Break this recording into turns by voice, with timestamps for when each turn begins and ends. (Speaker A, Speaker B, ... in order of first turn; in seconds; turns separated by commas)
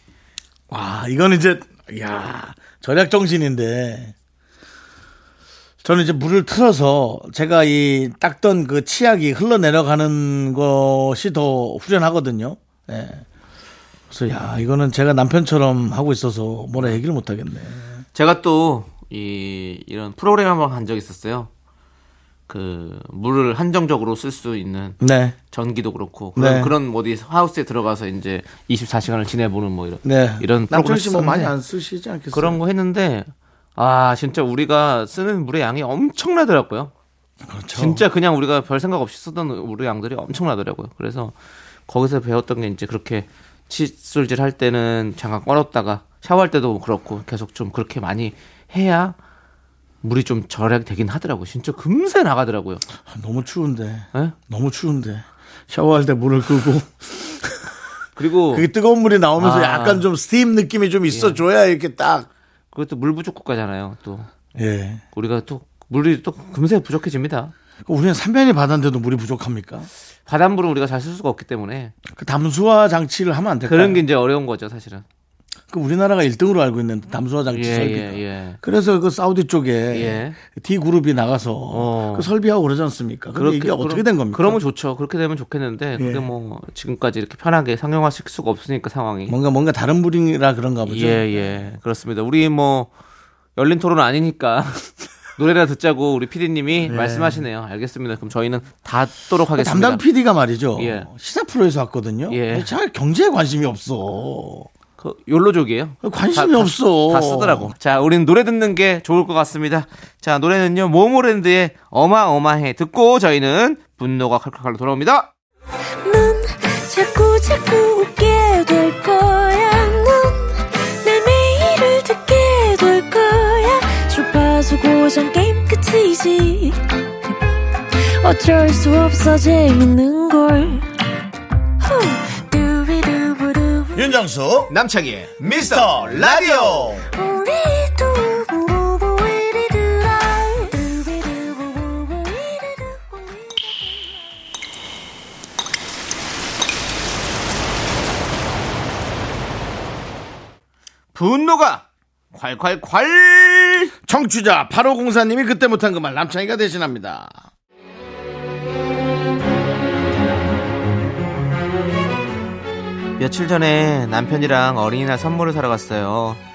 Speaker A: 0.7-4.1, Speaker A: 5.8-13.2, Speaker A: 14.1-18.0, Speaker B: 18.1-21.5, Speaker B: 22.5-25.0, Speaker A: 25.0-25.4, Speaker B: 25.5-31.5, Speaker A: 26.4-26.7, Speaker A: 30.0-32.6, Speaker B: 32.3-36.9, Speaker A: 37.4-38.0, Speaker B: 37.7-41.3, Speaker B: 41.9-49.1, Speaker B: 50.0-52.8, Speaker A: 53.0-57.7, Speaker B: 58.1-58.6, Speaker A: 58.5-62.3, Speaker B: 59.4-60.0, Speaker B: 61.1-61.4, Speaker B: 62.7-64.3, Speaker A: 64.5-65.0, Speaker B: 65.1-67.5, Speaker A: 67.8-69.9, Speaker B: 70.2-71.9, Speaker A: 72.1-74.0, Speaker B: 73.7-75.0, Speaker A: 75.7-84.6, Speaker B: 77.5-78.6, Speaker B: 79.9-80.4, Speaker B: 81.7-82.3, Speaker B: 83.3-89.3, Speaker A: 86.0-86.3, Speaker A: 89.3-91.7, Speaker B: 90.8-92.9, Speaker B: 93.6-100.0, Speaker A: 96.8-97.4, Speaker A: 99.5-104.7, Speaker B: 100.8-101.1, Speaker B: 102.3-102.7, Speaker B: 105.0-115.3, Speaker A: 106.0-107.7, Speaker C: 116.0-127.3, Speaker C: 127.9-130.9, Speaker C: 131.8-134.0, Speaker A: 133.9-134.7, Speaker B: 134.7-137.0, Speaker A: 135.4-137.1, Speaker C: 137.1-144.1, Speaker B: 151.1-153.9, Speaker A: 154.1-157.4, Speaker B: 163.2-166.4